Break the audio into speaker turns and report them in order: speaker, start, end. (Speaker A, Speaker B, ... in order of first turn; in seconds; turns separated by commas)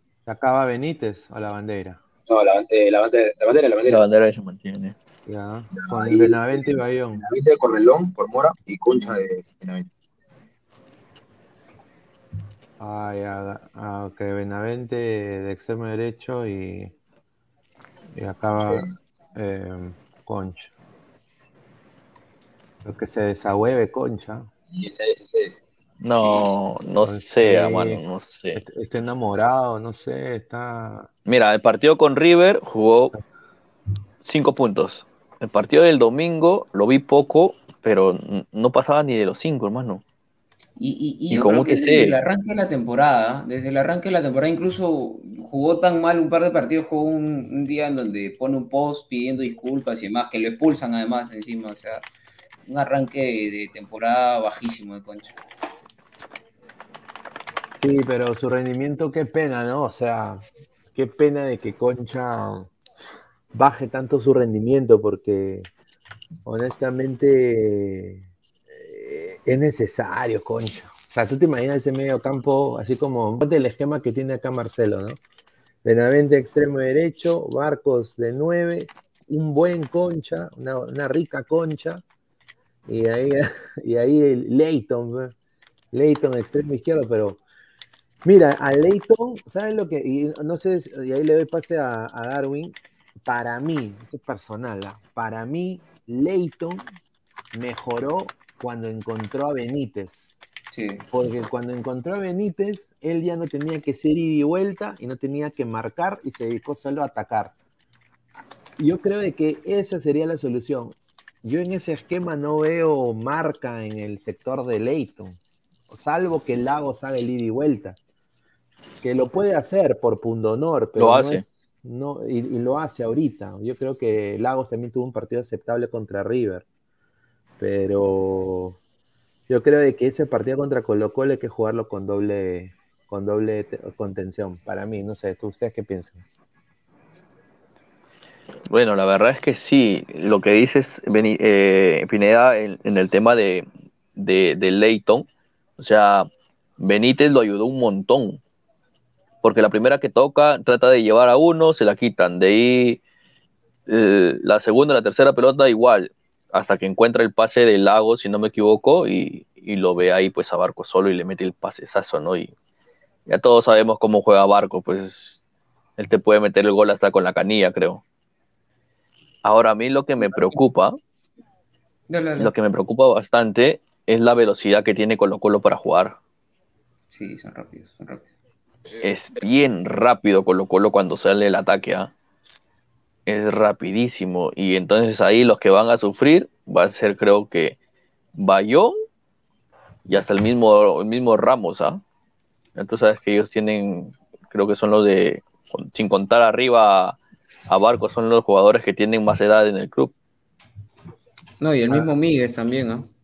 Speaker A: 0.2-2.0, Speaker B: 2.3-4.0, Speaker C: 3.9-4.9, Speaker A: 5.2-7.2, Speaker B: 5.7-9.9, Speaker A: 12.8-16.9, Speaker A: 18.1-20.7, Speaker A: 22.8-24.5, Speaker B: 24.7-26.5, Speaker C: 26.0-28.6, Speaker A: 27.0-28.0, Speaker A: 28.5-31.1, Speaker C: 31.3-33.1, Speaker C: 34.2-40.0, Speaker D: 40.8-52.0, Speaker C: 41.3-42.2, Speaker D: 52.6-55.4, Speaker A: 57.8-62.7, Speaker A: 63.5-65.7, Speaker A: 66.4-75.2, Speaker A: 75.8-82.0, Speaker A: 82.9-85.3, Speaker A: 85.9-87.4, Speaker A: 88.2-96.8, Speaker A: 97.5-100.3, Speaker D: 100.7-101.0, Speaker A: 101.1-107.5, Speaker A: 108.8-115.4, Speaker A: 115.9-118.0, Speaker A: 119.0-126.7, Speaker C: 121.0-121.4, Speaker A: 127.6-128.8, Speaker A: 129.5-136.2, Speaker C: 138.7-145.3, Speaker C: 145.8-148.4, Speaker C: 149.4-153.0, Speaker C: 153.9-162.5, Speaker C: 163.3-165.4, Speaker C: 166.0-168.0, Speaker C: 169.4-171.0, Speaker D: 170.2-170.6, Speaker D: 172.1-172.5, Speaker C: 172.4-176.2, Speaker D: 177.1-178.3, Speaker B: 178.8-179.1, Speaker C: 179.0-182.1, Speaker C: 183.2-187.8, Speaker C: 188.4-188.9, Speaker C: 190.1-192.0, Speaker C: 192.8-200.1, Speaker D: 201.6-203.1